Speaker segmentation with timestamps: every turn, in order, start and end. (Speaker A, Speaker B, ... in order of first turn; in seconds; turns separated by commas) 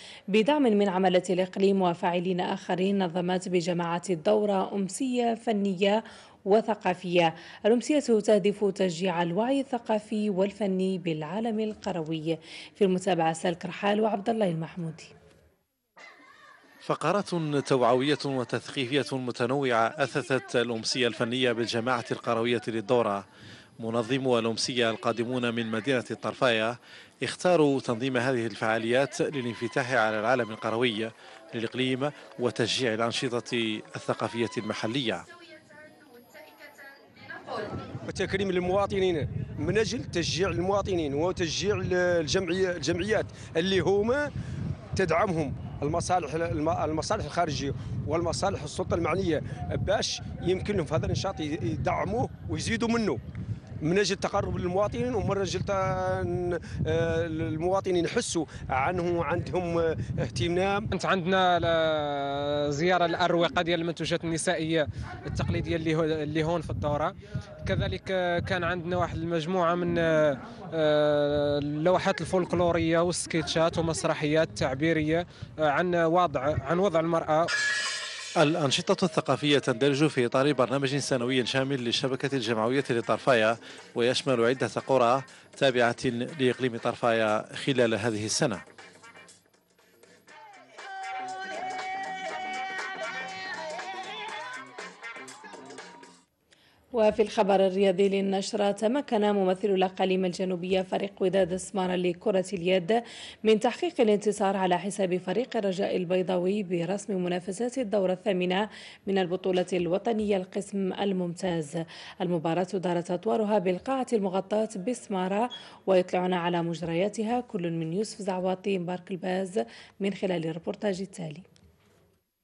Speaker A: 0.3-15.1, Speaker B: 16.8-23.2, Speaker B: 23.8-35.2, Speaker C: 38.1-44.3, Speaker C: 45.0-53.2, Speaker C: 53.8-60.9, Speaker D: 60.9-67.1, Speaker D: 67.6-77.5, Speaker B: 78.4-88.6, Speaker A: 97.0-121.4